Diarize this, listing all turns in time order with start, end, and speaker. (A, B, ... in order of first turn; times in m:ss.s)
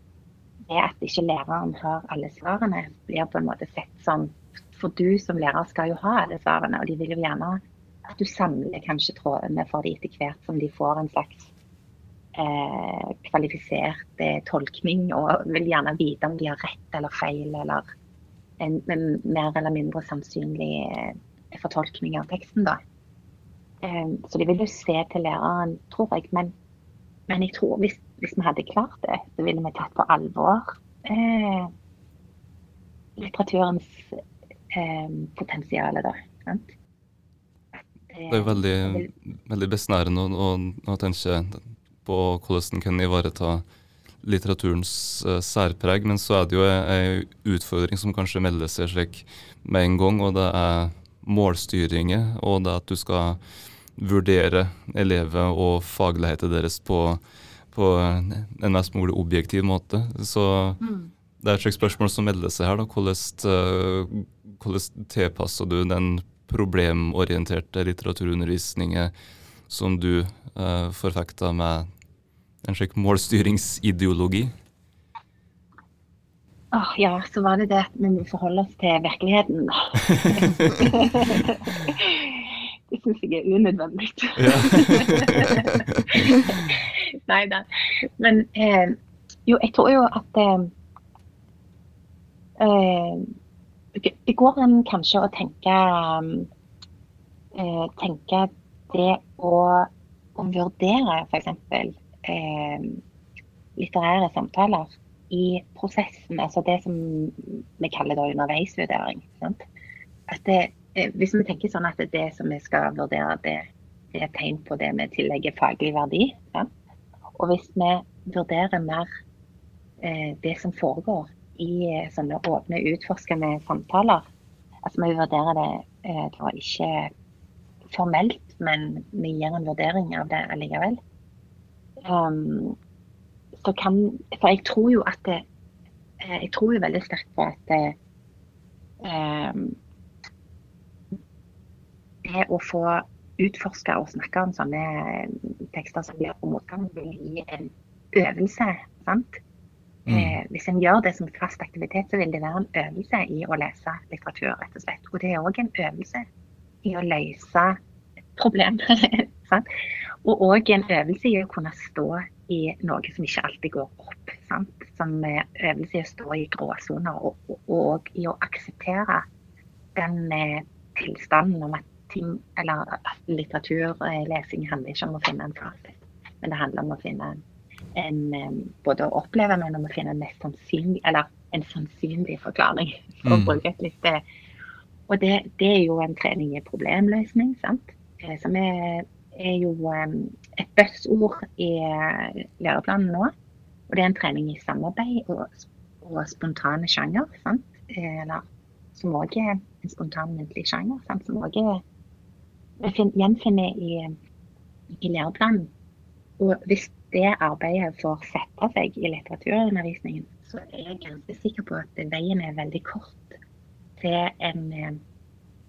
0:00.7-0:11.5 A
0:12.4-0:17.8 A
0:18.6-0:22.8 A
0:23.8-0:26.5 A
0:27.3-0:31.7 A
0:33.2-0:34.2 A
0:34.7-0:36.7 A
0:37.7-0:39.1 A
0:38.3-0:43.6 B
0:44.2-0:53.4 B
0:54.0-1:00.8 B
1:00.8-1:01.1 A
1:01.4-1:09.1 B
1:09.7-1:11.9 B
1:12.6-1:14.5 B
1:16.7-1:27.7 A
1:20.3-1:20.9 B
1:24.4-1:25.5 B
1:28.2-1:30.7 A
1:32.6-1:33.3 A
1:34.0-1:36.5 A
1:37.5-1:43.0 A
1:43.8-1:49.6 A
1:50.3-1:56.7 A
1:57.4-1:59.1 A
2:00.0-2:04.2 A
2:04.8-2:07.1 A
2:07.9-2:11.0 A
2:12.0-2:12.8 A
2:13.6-2:15.4 A
2:16.2-2:17.9 A
2:19.0-2:19.8 A
2:22.2-2:29.4 A
2:30.1-2:30.4 B
2:30.1-2:36.2 A
2:36.8-2:37.8 A
2:38.4-2:39.6 A
2:40.2-2:49.2 A
2:50.0-2:57.4 A
2:58.0-3:04.2 A
3:03.2-3:03.6 B
3:05.1-3:13.3 A
3:13.9-3:18.4 A
3:18.9-3:21.8 A
3:22.8-3:24.2 A
3:25.0-3:25.7 A
3:26.4-3:33.4 A
3:34.0-3:35.0 A